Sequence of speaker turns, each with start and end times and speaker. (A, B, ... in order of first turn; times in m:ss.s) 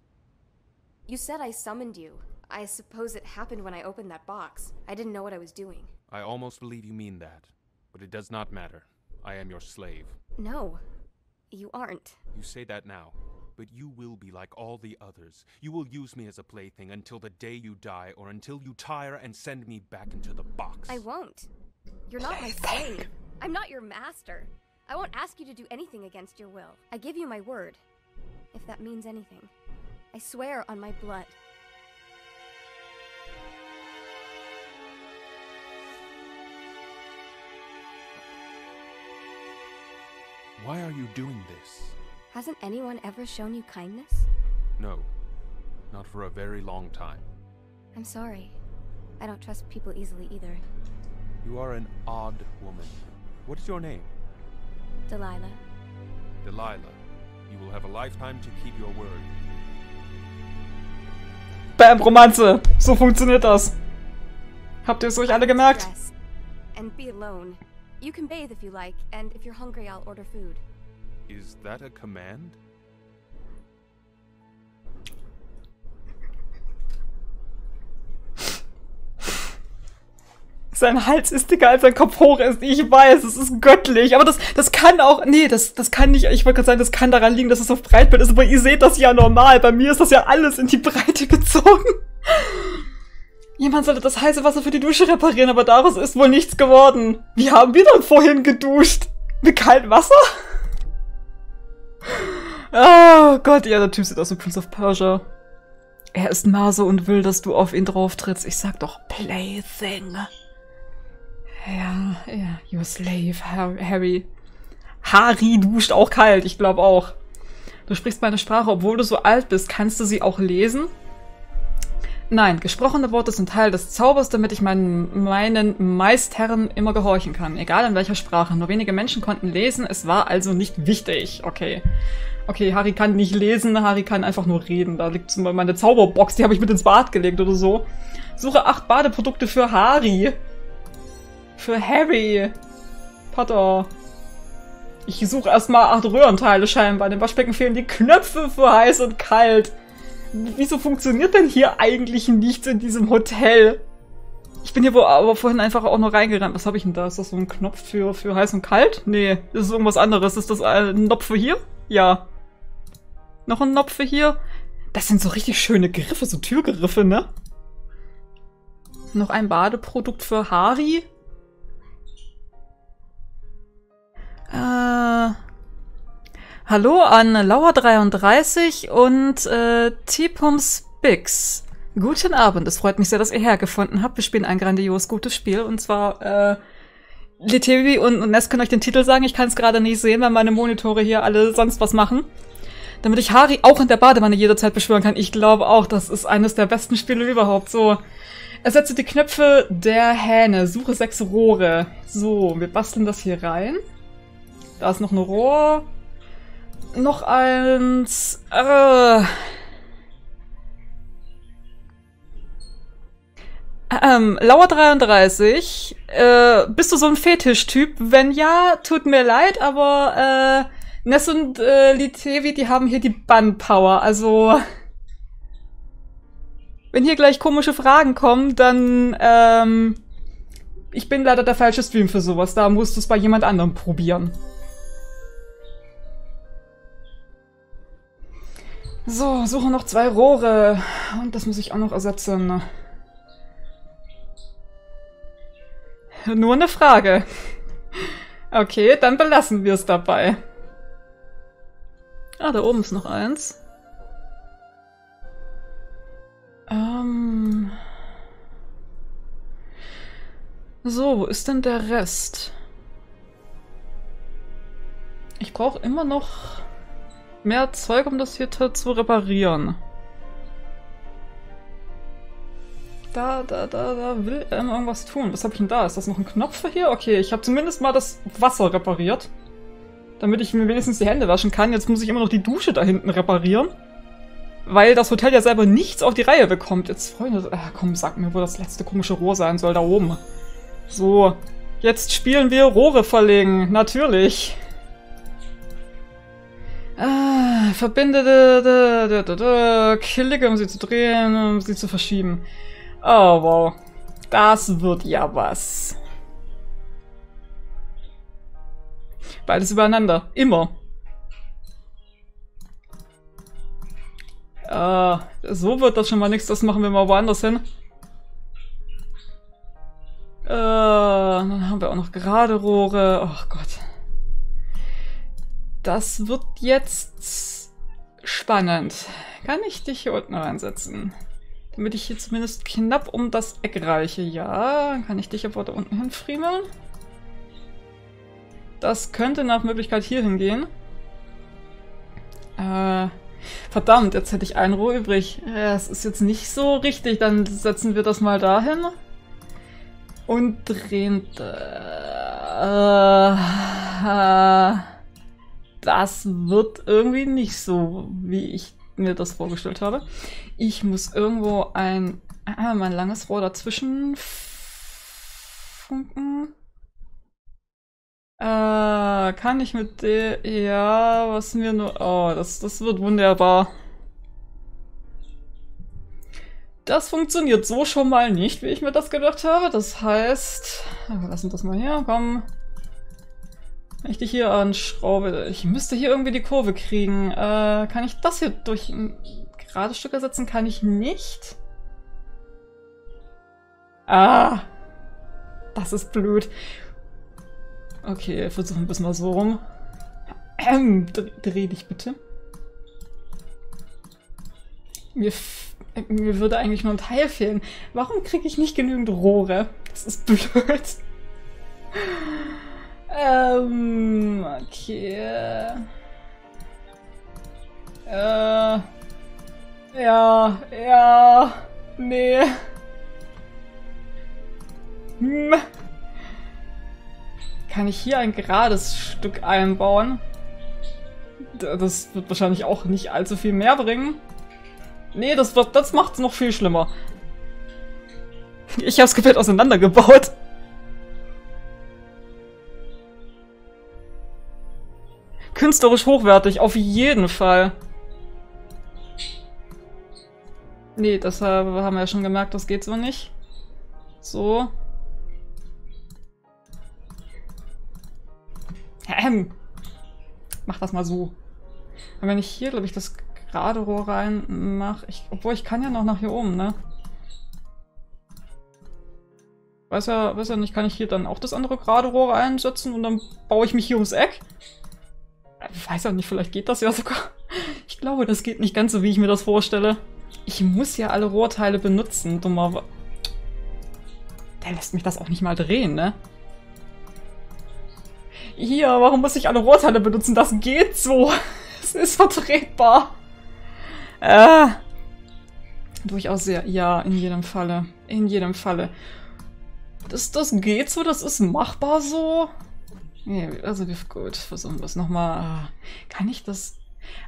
0:01.1-0:05.9 A
0:06.1-0:10.2 B
0:10.4-0:10.8 A
0:11.5-0:12.2 A
0:12.3-0:21.0 B
0:20.9-0:21.5 A
0:22.1-0:27.8 A
0:22.3-0:23.1 C
0:28.5-0:29.5 A
0:30.1-0:31.4 A
0:40.6-0:42.0 B
0:42.3-0:44.3 A
0:44.8-0:45.1 B
0:45.9-0:47.3 B
0:47.9-0:48.6 A
0:49.2-0:50.6 A
0:51.4-0:54.1 B
0:55.1-0:55.6 A
0:56.4-0:59.3 B
1:01.8-1:03.7 C
1:04.8-1:05.9 C
1:05.2-1:06.1 A
1:06.7-1:10.6 A
1:11.3-1:12.6 B
1:20.7-1:32.8 C
1:33.6-1:40.4 C
1:42.0-1:45.2 C
1:46.1-1:50.3 C
1:51.6-1:54.3 C
1:55.0-1:57.2 C
1:57.9-2:00.9 C
2:02.3-2:11.8 C
2:12.5-2:20.4 C
2:21.6-2:22.6 C
2:23.3-2:23.9 C
2:25.0-2:29.7 C
2:30.3-2:33.8 C
2:34.6-2:42.2 C
2:43.5-2:44.4 C
2:44.9-2:47.3 C
2:49.1-2:51.0 C
2:54.5-2:55.4 C
2:56.6-3:06.6 C
3:07.4-3:12.3 C
3:13.0-3:18.0 C
3:18.6-3:23.8 C
3:24.8-3:25.9 C
3:26.9-3:29.5 C
3:33.9-3:44.6 C
3:46.9-3:50.0 C
3:50.9-3:54.3 C
3:59.0-4:02.6 C
4:06.2-4:07.3 C
4:08.5-4:10.4 C
4:12.4-4:13.6 C
4:16.7-4:17.8 C
4:20.8-4:22.5 C
4:25.4-4:26.6 C
4:27.4-4:29.8 C
4:33.1-4:39.3 C
4:40.2-4:43.7 C
4:44.6-4:50.2 C
4:50.9-4:54.6 C
4:57.0-5:02.4 C
5:03.0-5:03.8 C
5:04.3-5:06.0 C
5:09.4-5:10.7 C
5:14.6-5:17.6 C
5:20.4-5:23.8 C
5:25.8-5:27.7 C
5:28.2-5:31.1 C
5:31.7-5:36.6 C
5:38.8-5:40.7 C
5:42.6-5:43.1 C
5:43.7-5:48.9 C
5:50.3-5:54.9 C
5:55.8-6:00.0 C
6:00.6-6:05.2 C
6:05.7-6:06.5 C
6:08.4-6:13.7 C
6:16.8-6:22.4 C
6:24.0-6:31.6 C
6:34.1-6:34.6 C
6:35.7-6:36.5 C
6:38.0-6:39.6 C
6:40.6-6:42.2 C
6:45.1-6:51.0 C
6:51.9-6:55.9 C
6:58.1-6:58.9 C
6:59.9-7:02.6 C
7:05.2-7:05.6 C
7:07.7-7:10.2 C
7:11.5-7:14.2 C
7:15.1-7:16.9 C
7:18.7-7:20.3 C
7:25.5-7:27.7 C
7:31.0-7:33.3 C
7:34.2-7:34.7 C
7:39.0-7:39.5 C
7:40.6-7:41.3 C
7:42.2-7:46.8 C
7:49.9-7:54.4 C
7:55.6-8:02.9 C
8:04.6-8:06.2 C
8:08.6-8:13.2 C
8:14.2-8:14.8 C
8:16.0-8:18.9 C
8:20.1-8:22.5 C
8:23.3-8:26.8 C